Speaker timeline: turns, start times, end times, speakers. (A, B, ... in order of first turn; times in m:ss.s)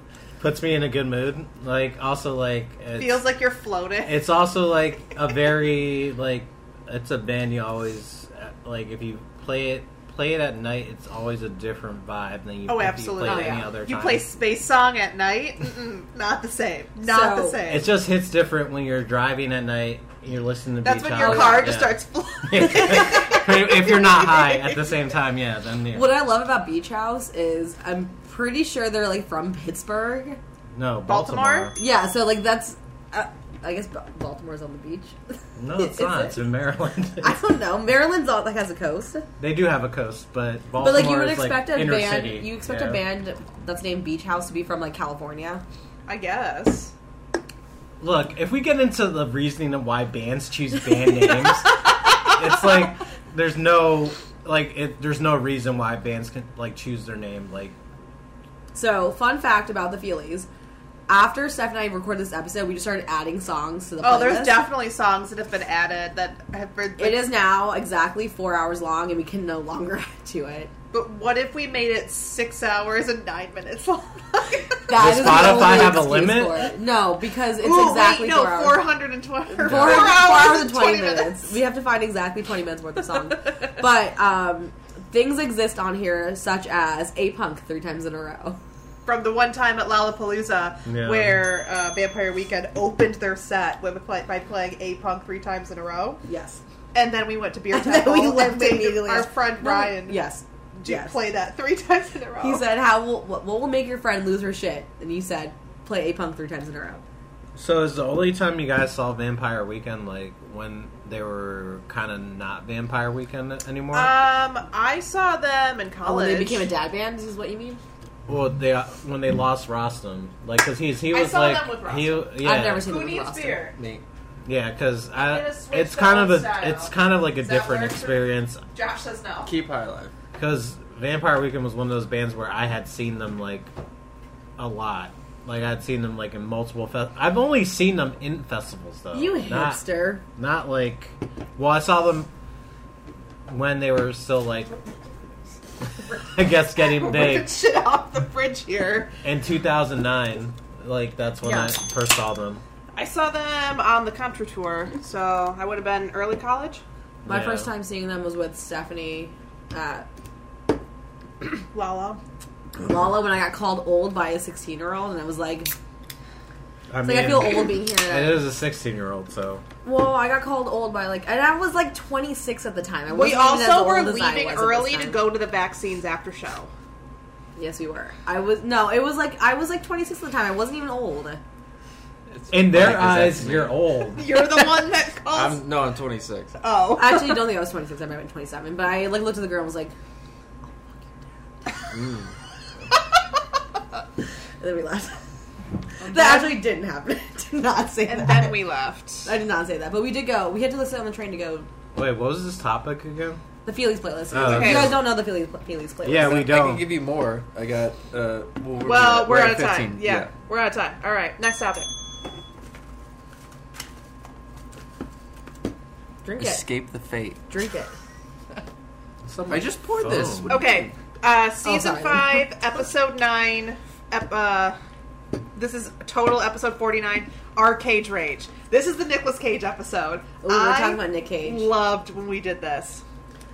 0:00.4-0:03.2 A
0:03.0-0:04.2 B
0:04.0-0:14.3 A
0:12.7-0:17.9 B
0:13.2-0:13.7 C
0:17.0-0:17.6 C
0:17.7-0:26.1 A
0:20.8-0:24.8 B
0:21.2-0:21.8 C
0:25.9-0:30.4 C
0:30.7-0:31.8 A
0:31.1-0:31.7 B
0:31.8-0:36.4 C
0:35.6-0:37.4 A
0:37.2-0:39.3 C
0:39.4-0:43.0 A
0:40.8-0:45.6 C
0:46.1-0:46.9 B
0:48.0-0:57.8 A
0:58.7-1:00.5 C
1:01.1-1:04.7 C
1:04.0-1:07.3 B
1:07.0-1:10.7 C
1:10.9-1:15.6 B
1:14.9-1:18.9 C
1:14.9-1:16.7 A
1:17.6-1:21.5 B
1:19.5-1:28.6 C
1:19.7-1:20.1 A
1:29.0-1:36.2 B
1:30.9-1:31.4 A
1:36.2-1:36.6 C
1:36.9-1:40.2 B
1:37.7-1:41.2 C
1:40.8-1:42.6 B
1:42.4-1:47.0 C
1:47.6-1:54.1 A
1:53.9-1:56.7 B
1:56.0-1:57.8 C
1:58.3-2:02.9 A
2:01.1-2:03.8 B
2:02.4-2:03.7 C
2:03.8-2:04.0 D
2:04.4-2:08.6 A
2:05.2-2:09.5 B
2:09.4-2:10.1 D
2:10.4-2:13.7 A
2:14.6-2:19.8 A
2:19.1-2:20.2 C
2:20.4-2:22.3 A
2:23.5-2:24.8 A
2:26.3-2:27.5 A
2:26.8-2:29.1 B
2:29.2-2:32.6 A
2:31.4-2:31.7 C
2:33.0-2:36.8 B
2:37.2-2:37.7 A
2:37.3-2:40.1 C
2:41.7-2:42.2 B
2:42.8-2:45.7 C
2:46.9-2:49.6 A
2:47.0-2:48.4 C
2:49.8-2:55.3 C
2:53.1-2:56.7 B
2:57.6-3:01.4 C
3:02.3-3:03.8 D
3:02.5-3:04.5 A
3:04.2-3:05.6 B
3:05.3-3:06.6 D
3:06.6-3:07.5 B
3:07.0-3:09.9 C
3:11.9-3:12.3 D
3:14.6-3:15.3 C
3:16.0-3:16.6 B
3:16.0-3:18.6 C
3:18.1-3:19.3 B
3:19.2-3:21.7 C
3:21.9-3:23.4 A
3:23.6-3:26.5 C
3:24.3-3:25.1 A
3:24.4-3:25.0 B
3:26.0-3:26.8 A
3:26.2-3:30.3 D
3:28.8-3:31.9 B
3:36.2-3:36.7 C
3:36.4-3:37.4 D
3:37.5-3:37.9 C
3:39.3-3:40.6 A
3:39.5-3:40.9 D
3:40.5-3:44.8 B
3:41.6-3:42.4 C
3:45.6-3:53.0 B
3:50.4-3:51.7 C